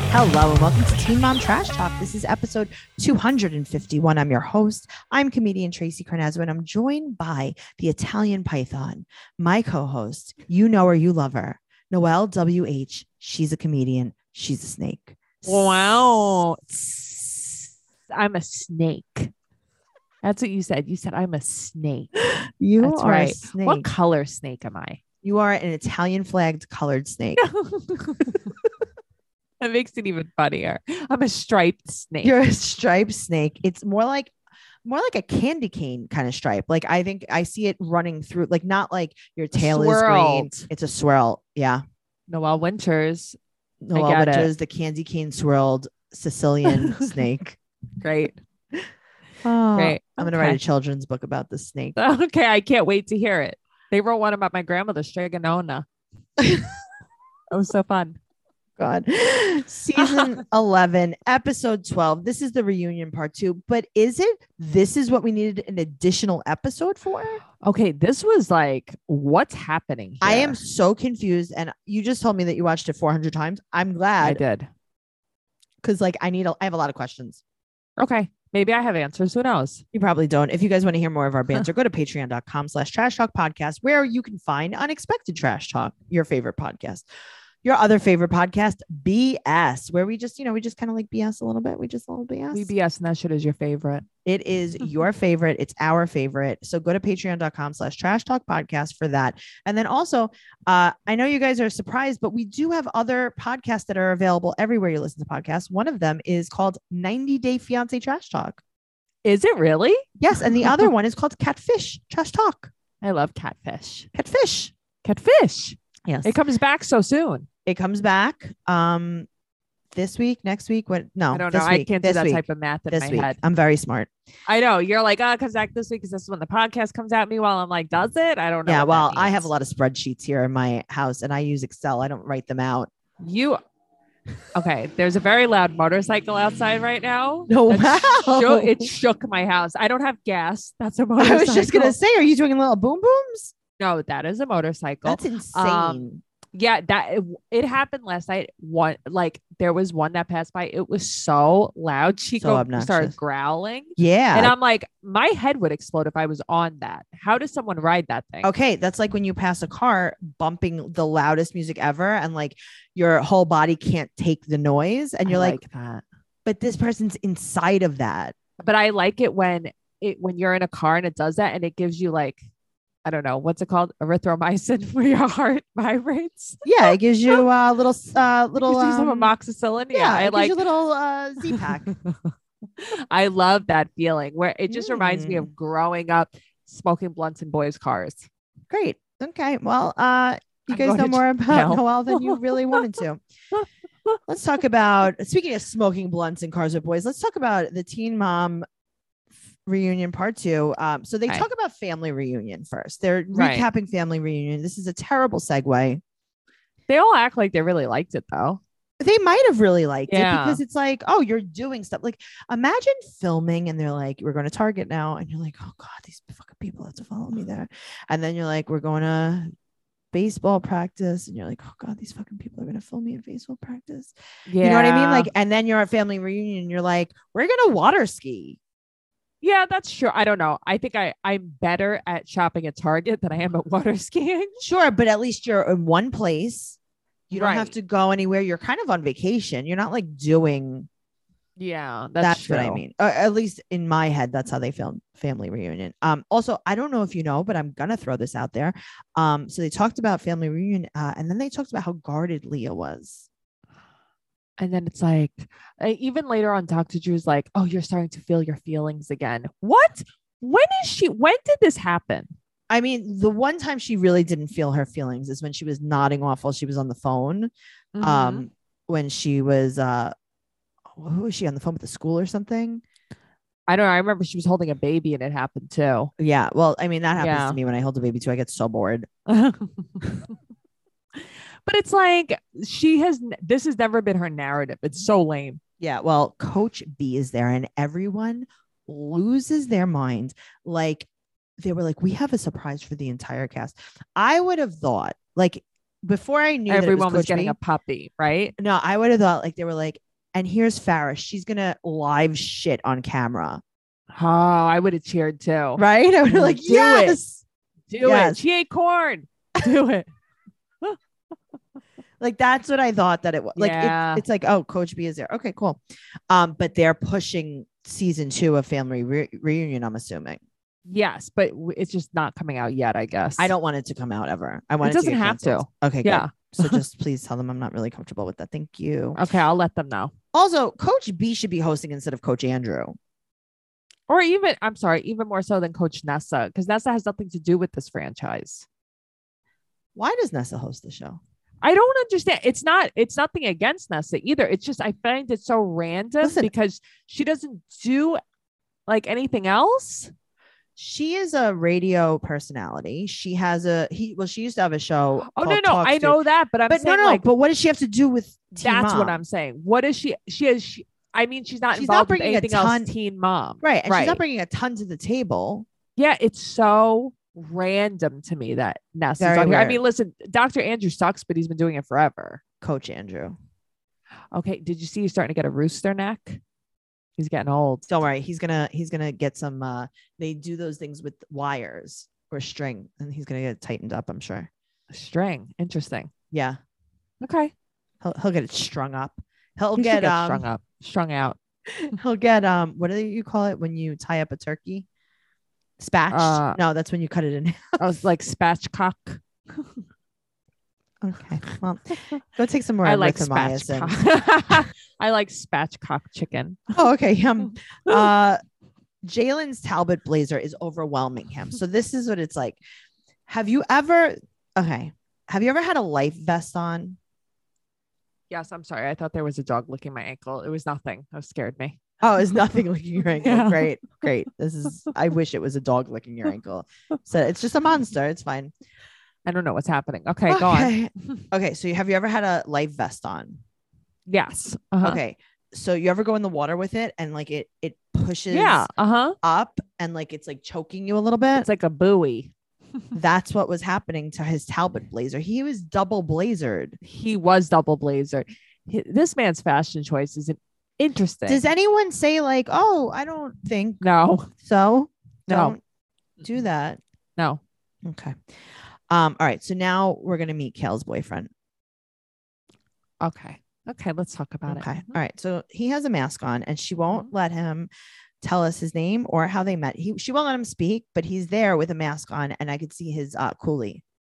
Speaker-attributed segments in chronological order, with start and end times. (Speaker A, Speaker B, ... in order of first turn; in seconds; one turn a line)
Speaker A: 0.1-16.6
Speaker B: 15.4-17.3
Speaker B: 18.1-19.3
Speaker B: 20.2-22.1
Speaker A: 22.2-23.9
Speaker B: 22.8-25.0
Speaker A: 25.2-27.4
Speaker B: 27.4-28.4
Speaker B: 29.6-32.3
Speaker A: 32.2-34.3
Speaker A: 34.8-41.8
Speaker B: 39.5-40.7
Speaker B: 42.3-43.4
Speaker A: 43.8-47.6
Speaker B: 43.9-44.5
Speaker B: 46.6-47.1
Speaker B: 48.0-48.4
Speaker A: 49.4-52.0
Speaker B: 49.8-50.6
Speaker B: 52.0-55.9
Speaker A: 56.4-56.7
Speaker B: 57.5-58.2
Speaker A: 58.8-67.4
Speaker B: 67.6-70.6
Speaker A: 70.2-74.4
Speaker B: 74.2-74.7
Speaker A: 75.8-77.4
Speaker B: 78.0-79.8
Speaker A: 79.9-87.0
Speaker A: 87.6-92.7
Speaker B: 92.5-94.0
Speaker A: 94.2-108.6
Speaker B: 109.2-110.8
Speaker A: 110.2-112.7
Speaker B: 113.0-114.1
Speaker A: 114.1-114.7
Speaker B: 115.0-117.5
Speaker A: 116.1-116.4
Speaker A: 117.7-119.3
Speaker A: 119.9-124.1
Speaker B: 121.3-123.4
Speaker B: 124.5-129.5
Speaker A: 128.7-132.9
Speaker B: 133.2-133.6
Speaker B: 134.5-142.0
Speaker A: 137.5-138.9
Speaker A: 141.2-143.5
Speaker B: 143.8-158.5
Speaker A: 145.0-146.2
Speaker A: 152.4-153.1
Speaker A: 154.0-154.5
Speaker A: 158.4-165.6
Speaker B: 165.2-166.0
Speaker A: 166.4-168.3
Speaker B: 168.6-172.4
Speaker B: 173.0-177.4
Speaker A: 176.6-179.3
Speaker B: 178.6-180.6
Speaker A: 179.9-181.9
Speaker B: 181.5-188.3
Speaker A: 184.7-185.5
Speaker A: 188.7-193.2
Speaker B: 190.7-192.9
Speaker B: 193.5-194.2
Speaker A: 194.3-198.6
Speaker A: 199.6-206.0
Speaker B: 203.3-203.7
Speaker B: 206.9-208.6
Speaker A: 209.0-219.5
Speaker B: 210.1-210.6
Speaker A: 220.1-228.6
Speaker B: 224.5-225.3
Speaker B: 229.4-234.6
Speaker A: 234.6-236.8
Speaker A: 237.3-240.9
Speaker B: 237.3-237.7
Speaker B: 241.6-242.8
Speaker A: 242.2-253.3
Speaker B: 254.6-262.3
Speaker A: 262.7-270.1
Speaker B: 267.9-268.5
Speaker A: 270.9-272.8
Speaker B: 273.7-276.1
Speaker A: 276.2-279.1
Speaker B: 277.1-277.6
Speaker B: 279.3-280.2
Speaker B: 281.6-285.6
Speaker A: 285.8-291.1
Speaker A: 291.6-297.6
Speaker B: 296.7-298.5
Speaker A: 298.6-303.6
Speaker B: 304.1-307.2
Speaker A: 305.8-307.4
Speaker B: 307.9-310.1
Speaker A: 308.0-308.4
Speaker A: 312.2-320.4
Speaker B: 313.6-314.2
Speaker B: 320.9-323.5
Speaker A: 323.4-329.2
Speaker B: 324.8-326.8
Speaker B: 329.1-330.1
Speaker A: 330.3-332.9
Speaker B: 334.1-338.6
Speaker A: 339.9-341.2
Speaker B: 341.6-348.2
Speaker A: 346.2-346.5
Speaker B: 348.9-350.1
Speaker A: 350.8-359.2
Speaker B: 355.2-357.2
Speaker B: 358.6-364.2
Speaker A: 361.7-362.9
Speaker A: 363.6-365.6
Speaker B: 366.0-372.4
Speaker A: 369.2-369.8
Speaker A: 372.6-373.4
Speaker B: 374.3-376.4
Speaker B: 377.2-377.9
Speaker A: 377.9-384.5
Speaker B: 384.9-386.1
Speaker A: 386.3-386.6
Speaker B: 387.2-387.5
Speaker A: 388.0-390.4
Speaker B: 389.8-391.4
Speaker A: 391.8-394.9
Speaker A: 395.8-397.8
Speaker B: 396.1-396.6
Speaker B: 397.8-399.6
Speaker A: 401.0-403.9
Speaker B: 402.8-406.7
Speaker A: 406.7-408.4
Speaker A: 409.0-412.6
Speaker A: 413.3-417.0
Speaker B: 418.3-421.8
Speaker A: 422.0-428.5
Speaker B: 423.2-424.1
Speaker B: 429.2-431.2
Speaker A: 430.3-433.4
Speaker B: 434.1-435.0
Speaker A: 434.8-438.7
Speaker B: 438.3-439.1
Speaker A: 439.2-441.5
Speaker B: 441.3-442.3
Speaker A: 442.9-446.8
Speaker B: 446.8-451.4
Speaker A: 451.3-453.8
Speaker B: 453.8-454.3
Speaker A: 454.4-455.6
Speaker B: 455.3-455.6
Speaker A: 456.2-456.8
Speaker A: 457.8-458.2
Speaker A: 458.9-461.3
Speaker B: 463.0-464.9
Speaker A: 464.5-467.7
Speaker B: 466.9-467.1
Speaker A: 468.2-473.8